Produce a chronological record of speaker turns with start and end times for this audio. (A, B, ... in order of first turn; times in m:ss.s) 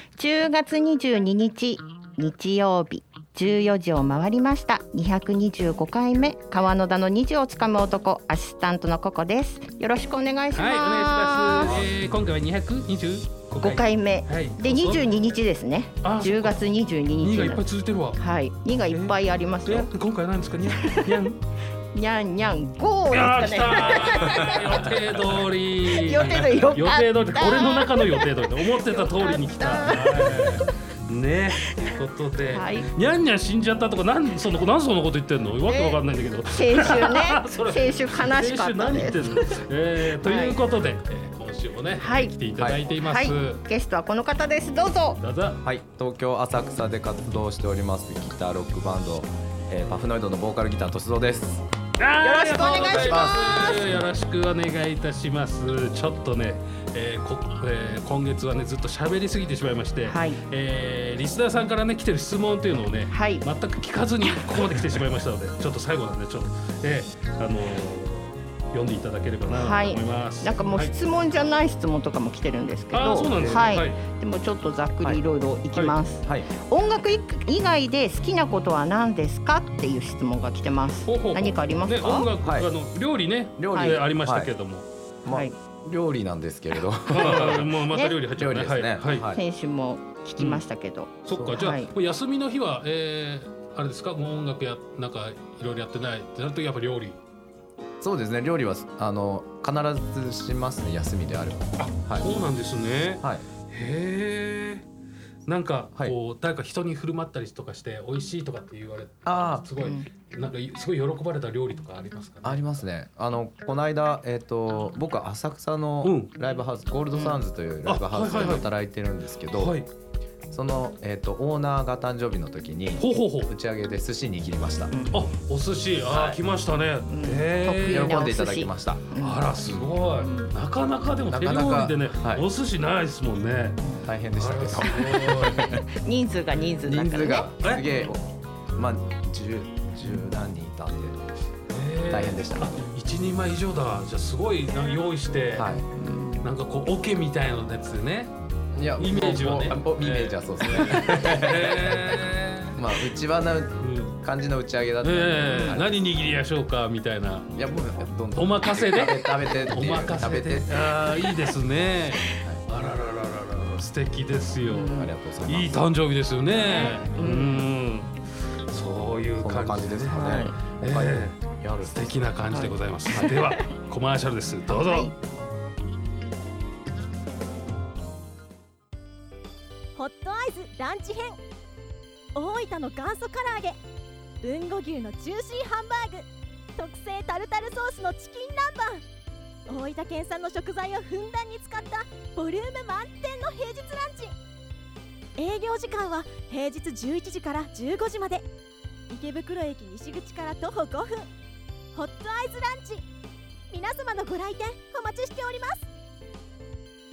0:00.2-0:11.8 A
0:10.5-0:15.1 B
0:13.6-0:17.6 A
0:16.0-0:16.6 B
0:17.2-0:18.2 B
0:18.2-0:19.9 A
0:18.9-0:21.4 B
0:20.7-0:21.3 A
0:21.9-0:24.9 A
0:23.1-0:43.6 B
0:25.8-0:30.8 A
0:32.5-0:32.9 A
0:35.7-0:40.6 A
0:42.0-0:42.4 A
0:42.6-0:42.8 C
0:42.9-0:45.2 A
0:45.2-0:45.6 B
0:45.6-0:51.6 C
0:52.0-1:10.9 B
0:52.2-0:54.0 A
0:52.8-0:53.8 C
1:00.0-1:00.4 A
1:03.1-1:03.4 A
1:09.5-1:22.3 A
1:12.9-1:14.0 B
1:13.2-1:13.7 C
1:16.2-1:16.5 C
1:21.0-1:24.9 B
1:22.2-1:22.7 C
1:23.6-1:24.5 C
1:23.7-1:24.0 A
1:25.2-1:27.7 C
1:25.3-1:25.5 A
1:27.1-1:29.2 B
1:27.9-1:28.2 A
1:28.4-1:29.4 C
1:29.3-1:31.9 A
1:30.4-1:30.6 B
1:31.2-1:37.2 B
1:31.3-1:31.6 C
1:38.0-1:42.3 C
1:41.8-1:44.8 B
1:45.4-1:52.6 B
1:49.2-1:49.7 C
1:49.8-1:50.1 A
1:52.4-1:59.8 C
1:56.0-1:56.3 B
1:57.1-1:57.4 A
1:57.8-1:58.7 B
1:59.5-1:59.9 B
2:00.5-2:04.9 C
2:03.0-2:03.5 B
2:04.9-2:05.2 A
2:05.1-2:08.2 B
2:06.1-2:06.4 C
2:07.1-2:09.5 A
2:07.8-2:09.1 C
2:09.2-2:13.8 B
2:09.6-2:09.9 C
2:10.1-2:10.5 A
2:11.3-2:12.4 C
2:13.8-2:14.1 A
2:14.0-2:15.8 C
2:14.4-2:15.7 B
2:15.8-2:17.5 A
2:16.8-2:21.2 C
2:21.7-2:25.7 B
2:22.1-2:22.8 C
2:25.5-2:25.9 C
2:26.0-2:26.5 A
2:26.4-2:28.3 B
2:28.7-2:32.0 C
2:29.0-2:32.8 B
2:32.8-2:35.9 C
2:33.8-2:34.2 B
2:35.0-2:37.5 B
2:35.5-2:35.8 A
2:37.5-2:40.9 C
2:38.3-2:48.2 B
2:44.6-2:45.1 A
2:44.8-2:45.8 C
2:46.6-2:47.6 A
2:48.7-2:55.1 B
2:49.4-2:52.3 C
2:50.1-2:50.6 A
2:52.5-2:53.2 A
2:53.1-2:53.4 C
2:54.7-2:55.1 A
2:59.9-3:01.4 D
3:02.3-3:03.8 D
3:04.4-3:09.0 D
3:09.7-3:14.3 D
3:15.4-3:18.5 D
3:19.1-3:21.3 D
3:21.9-3:23.0 D
3:23.7-3:25.8 D